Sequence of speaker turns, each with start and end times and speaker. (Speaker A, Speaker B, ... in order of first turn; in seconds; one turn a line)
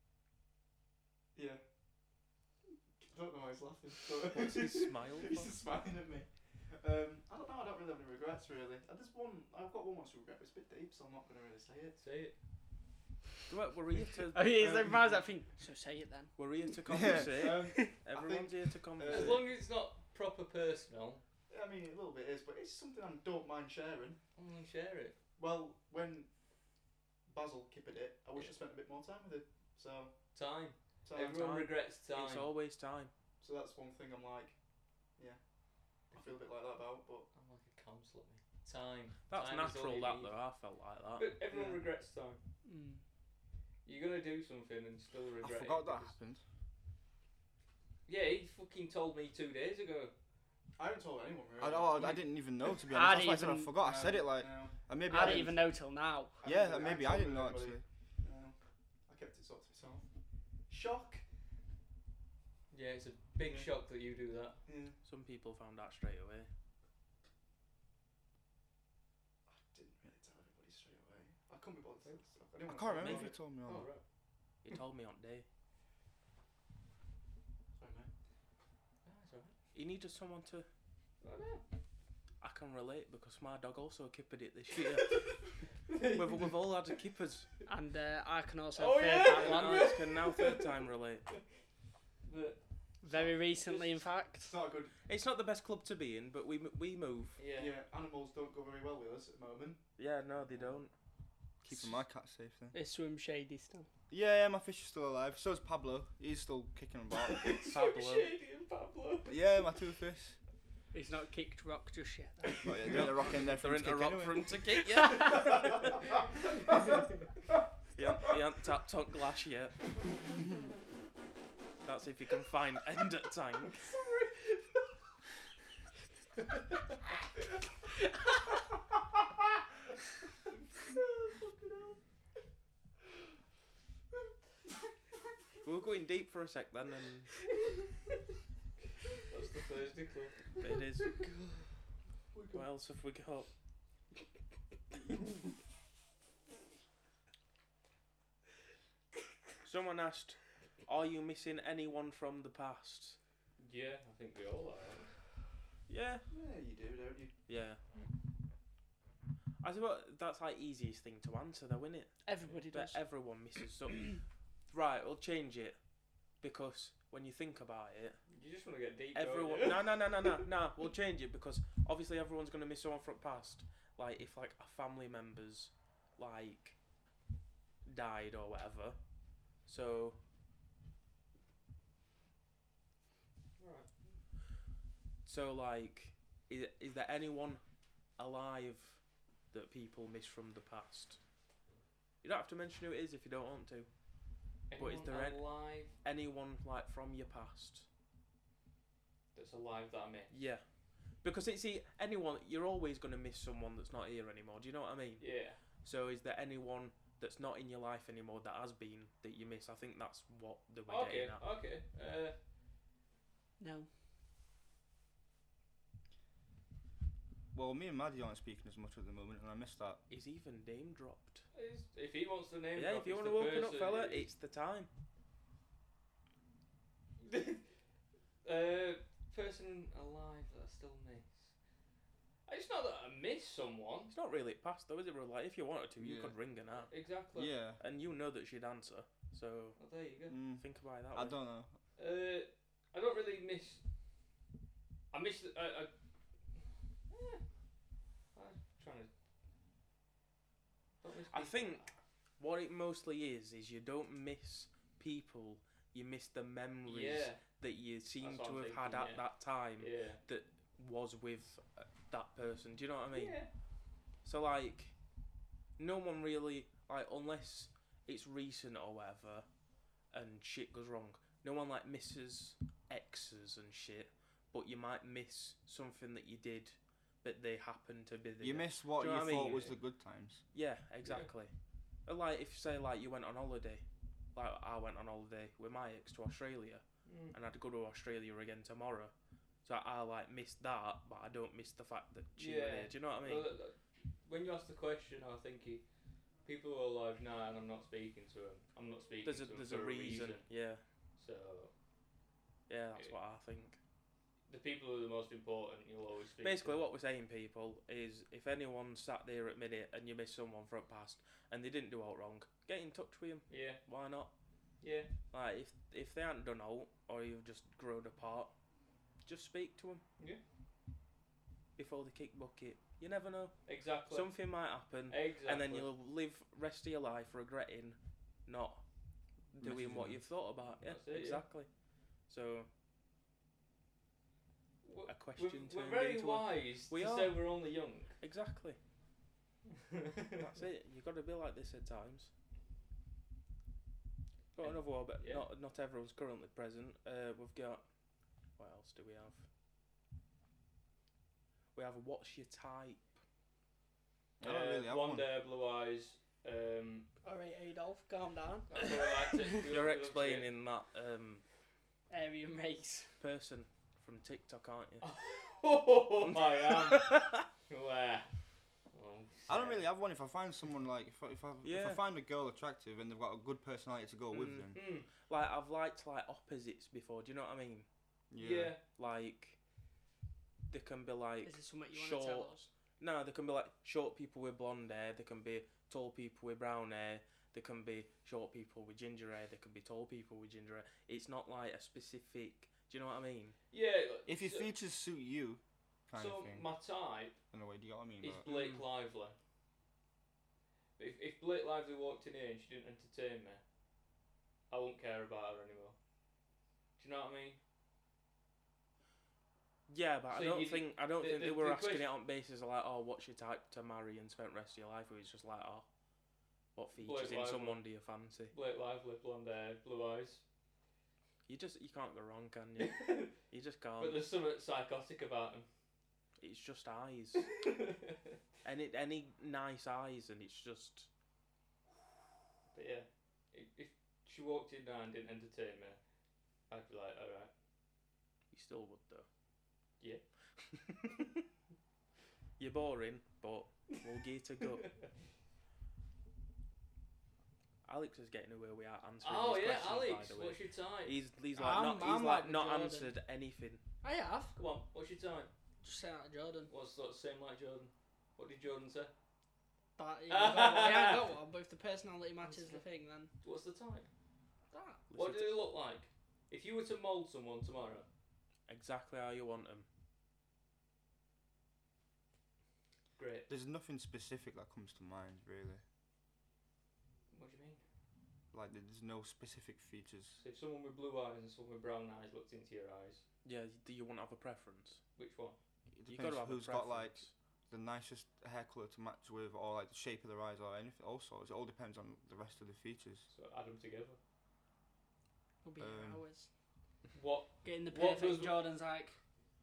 Speaker A: 1.3-1.6
Speaker A: 3.0-12.0
Speaker B: 4.3-5.5
Speaker C: 12.0-12.3
Speaker B: 13.5-15.0
Speaker D: 14.3-16.3
Speaker A: 14.6-15.2
Speaker B: 16.4-19.5
Speaker E: 16.9-17.5
Speaker A: 17.0-19.6
Speaker D: 17.6-17.9
Speaker C: 19.1-21.2
Speaker A: 21.5-24.2
Speaker C: 24.4-25.2
Speaker A: 25.4-26.3
Speaker A: 27.3-30.1
Speaker C: 30.3-32.5
Speaker A: 31.0-31.5
Speaker B: 31.3-33.1
Speaker A: 33.4-34.5
Speaker A: 36.1-37.3
Speaker C: 37.3-40.3
Speaker B: 39.3-41.3
Speaker C: 41.1-42.4
Speaker A: 41.5-41.8
Speaker D: 42.6-43.0
Speaker C: 43.8-46.1
Speaker E: 45.4-46.4
Speaker C: 48.1-50.1
Speaker A: 50.8-52.2
Speaker E: 51.6-55.6
Speaker D: 52.9-53.7
Speaker A: 53.8-55.6
Speaker D: 55.1-56.4
Speaker A: 56.4-58.5
Speaker E: 56.4-57.8
Speaker A: 59.1-60.0
Speaker A: 60.7-61.2
Speaker C: 62.7-64.6
Speaker A: 63.4-63.7
Speaker A: 64.7-65.0
Speaker B: 65.0-66.5
Speaker A: 69.5-73.3
Speaker E: 72.7-73.9
Speaker B: 73.0-73.3
Speaker C: 73.2-74.0
Speaker B: 74.6-75.5
Speaker A: 77.8-78.1
Speaker C: 79.0-79.5
Speaker B: 79.7-80.7
Speaker C: 81.2-81.6
Speaker B: 82.4-85.4
Speaker C: 85.0-85.3
Speaker C: 85.9-86.5
Speaker B: 86.0-87.5
Speaker D: 87.7-89.9
Speaker C: 88.7-90.7
Speaker B: 89.2-91.2
Speaker C: 92.2-92.6
Speaker D: 93.0-94.5
Speaker A: 93.1-93.8
Speaker A: 94.4-94.9
Speaker B: 95.1-97.4
Speaker C: 97.4-97.7
Speaker A: 97.5-99.8
Speaker B: 100.0-100.9
Speaker E: 101.6-102.8
Speaker D: 102.7-103.9
Speaker E: 104.1-107.6
Speaker C: 107.2-109.4
Speaker B: 107.7-108.3
Speaker E: 109.2-110.4
Speaker D: 110.9-113.0
Speaker E: 112.6-114.5
Speaker B: 112.9-116.0
Speaker A: 115.2-116.0
Speaker C: 116.8-117.1
Speaker B: 117.9-119.8
Speaker B: 121.8-123.7
Speaker C: 123.7-124.5
Speaker C: 131.2-132.0
Speaker B: 135.6-137.3
Speaker C: 139.3-140.6
Speaker B: 140.6-141.2
Speaker C: 141.2-141.6
Speaker A: 142.3-142.7
Speaker B: 142.5-143.5
Speaker B: 149.6-153.2
Speaker C: 153.6-155.2
Speaker B: 155.9-156.2
Speaker A: 156.3-157.3
Speaker B: 157.5-157.8
Speaker B: 159.6-165.8
Speaker D: 162.2-163.0
Speaker B: 166.4-168.2
Speaker C: 168.3-170.4
Speaker B: 169.1-176.8
Speaker B: 177.8-179.0
Speaker B: 179.7-180.2
Speaker C: 183.6-183.9
Speaker B: 185.2-187.6
Speaker B: 188.2-189.0
Speaker B: 189.5-191.2
Speaker B: 192.2-193.9
Speaker C: 194.7-195.9
Speaker B: 194.8-197.8
Speaker C: 199.3-200.3
Speaker B: 200.3-200.6
Speaker B: 201.2-205.3
Speaker C: 205.2-205.6
Speaker B: 205.8-211.4
Speaker C: 210.9-212.3
Speaker D: 213.6-213.9
Speaker E: 217.5-220.0
Speaker B: 220.1-221.4
Speaker C: 221.5-224.3
Speaker B: 222.8-224.9
Speaker C: 227.2-227.6
Speaker C: 228.4-231.5
Speaker C: 232.5-234.1
Speaker B: 234.1-236.9
Speaker E: 236.0-236.3
Speaker C: 236.7-237.5
Speaker E: 237.3-237.8
Speaker B: 237.8-239.8
Speaker C: 239.8-240.3
Speaker E: 240.3-241.7
Speaker B: 240.5-241.4
Speaker C: 242.0-243.8
Speaker C: 245.1-245.9
Speaker C: 247.1-247.4
Speaker C: 248.3-249.1
Speaker C: 251.0-251.9
Speaker B: 251.3-251.9
Speaker B: 252.4-263.4
Speaker C: 256.9-257.4
Speaker C: 258.2-259.2
Speaker C: 259.8-260.2
Speaker C: 263.1-263.5
Speaker B: 264.2-264.9
Speaker B: 265.8-269.4
Speaker B: 270.1-279.7
Speaker E: 278.4-280.4
Speaker B: 280.5-281.5
Speaker B: 282.1-283.8
Speaker B: 284.3-289.1
Speaker C: 287.1-287.3
Speaker B: 289.6-293.5
Speaker C: 292.4-295.8
Speaker C: 296.4-300.4
Speaker B: 299.2-300.8
Speaker C: 301.2-301.7
Speaker B: 302.7-303.8
Speaker C: 304.5-306.8
Speaker B: 306.4-314.3
Speaker C: 313.5-313.8
Speaker C: 314.8-315.1
Speaker B: 315.3-318.5
Speaker B: 319.2-320.0
Speaker B: 321.8-328.8
Speaker C: 323.6-324.3
Speaker C: 325.1-325.9
Speaker B: 329.5-331.7
Speaker E: 329.6-330.2
Speaker C: 330.8-331.4
Speaker B: 332.3-332.7
Speaker C: 334.8-338.1
Speaker B: 335.1-337.4
Speaker B: 338.2-338.8
Speaker C: 339.7-340.5
Speaker B: 340.4-342.3
Speaker B: 344.5-347.8
Speaker C: 344.6-345.4
Speaker B: 348.6-349.4
Speaker B: 351.7-353.0
Speaker E: 354.4-355.3
Speaker C: 354.4-357.1
Speaker D: 357.2-359.5
Speaker C: 358.7-360.5
Speaker B: 359.6-361.4
Speaker D: 362.1-363.1
Speaker B: 363.2-365.1
Speaker C: 365.0-368.3
Speaker B: 366.2-367.4
Speaker C: 368.9-369.9
Speaker E: 369.5-374.8
Speaker B: 371.6-372.0
Speaker B: 374.3-377.9
Speaker C: 374.7-375.1
Speaker E: 378.3-378.7
Speaker C: 378.4-378.8
Speaker B: 378.9-379.6
Speaker B: 380.7-393.6
Speaker D: 381.4-382.7
Speaker C: 393.7-394.7
Speaker E: 394.3-396.6
Speaker C: 396.1-397.3
Speaker E: 397.5-398.5
Speaker C: 398.2-399.3
Speaker B: 398.4-398.8
Speaker C: 401.0-403.6
Speaker C: 404.7-405.9
Speaker C: 407.0-407.6
Speaker B: 409.9-415.9
Speaker C: 410.3-412.1
Speaker B: 416.7-418.5
Speaker C: 417.0-417.8
Speaker C: 418.5-420.4
Speaker B: 421.5-424.2
Speaker C: 422.8-423.3
Speaker C: 424.0-425.7
Speaker B: 426.4-427.6
Speaker C: 427.5-428.4
Speaker B: 428.6-431.1
Speaker C: 432.7-436.0
Speaker C: 436.7-437.5
Speaker B: 438.5-439.3
Speaker B: 440.7-441.3
Speaker B: 442.6-444.9
Speaker C: 444.8-445.1
Speaker B: 447.8-453.8
Speaker C: 449.2-451.1
Speaker D: 451.5-453.1
Speaker D: 454.0-454.5
Speaker C: 454.5-455.5
Speaker D: 455.8-456.7
Speaker C: 456.7-459.1
Speaker D: 460.0-463.3
Speaker C: 460.3-461.3
Speaker C: 462.4-462.8
Speaker C: 463.4-464.1
Speaker D: 464.7-465.0
Speaker B: 465.1-465.6
Speaker C: 465.1-468.1
Speaker B: 468.7-469.9
Speaker C: 473.1-473.5
Speaker E: 473.5-475.8
Speaker C: 477.3-477.8
Speaker E: 478.5-480.4
Speaker C: 480.4-483.2
Speaker B: 483.4-485.0
Speaker C: 485.2-485.6
Speaker E: 485.9-493.3
Speaker B: 486.1-487.3
Speaker C: 493.3-494.2
Speaker D: 495.6-496.5
Speaker E: 495.8-496.2
Speaker C: 497.1-498.6
Speaker D: 497.6-499.2